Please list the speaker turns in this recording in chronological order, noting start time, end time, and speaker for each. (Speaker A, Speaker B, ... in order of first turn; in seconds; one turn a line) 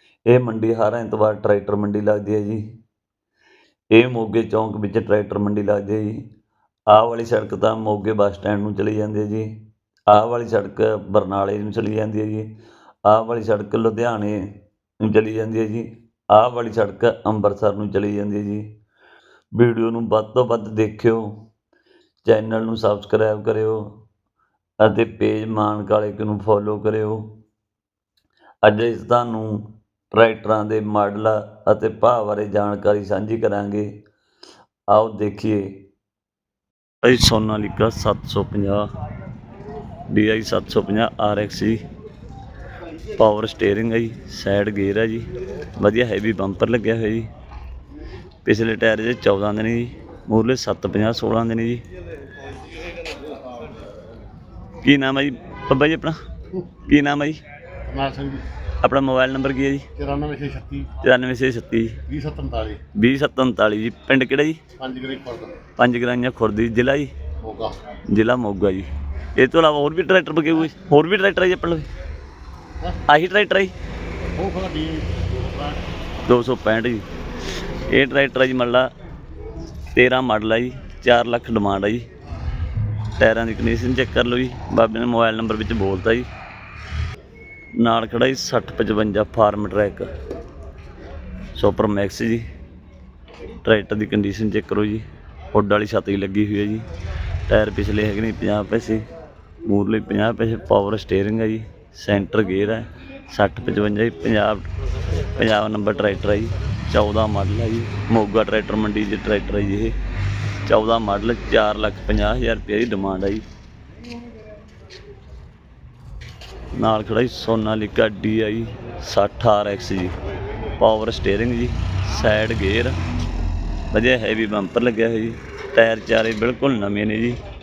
Speaker A: 0.3-2.6
Speaker A: 3.9-6.2
Speaker A: 6.9-9.5
Speaker A: 10.1-12.5
Speaker A: 13.1-14.4
Speaker A: 15.0-18.7
Speaker A: 19.6-21.4
Speaker A: 22.2-23.9
Speaker A: 24.8-27.3
Speaker A: 28.6-33.9
Speaker A: 34.9-35.8
Speaker A: 37.0-38.9
Speaker A: 40.1-41.8
Speaker A: 43.2-45.3
Speaker A: 45.8-47.3
Speaker A: 48.5-51.8
Speaker A: 54.8-56.2
Speaker A: 56.9-57.4
Speaker B: 57.9-58.4
Speaker A: 58.8-59.9
Speaker B: 60.0-60.8
Speaker A: 61.0-62.0
Speaker B: 62.1-62.8
Speaker A: 63.0-64.6
Speaker B: 64.8-65.3
Speaker A: 65.8-67.1
Speaker A: 68.1-71.9
Speaker A: 73.1-73.7
Speaker B: 74.4-75.6
Speaker A: 76.3-77.0
Speaker A: 77.9-78.9
Speaker A: 79.9-82.1
Speaker A: 83.2-86.3
Speaker A: 87.8-90.1
Speaker A: 91.5-92.4
Speaker A: 93.6-96.9
Speaker A: 97.5-99.0
Speaker A: 99.7-104.6
Speaker A: 105.3-109.9
Speaker A: 110.7-113.4
Speaker A: 116.8-120.1
Speaker A: 120.8-123.0
Speaker A: 123.9-127.4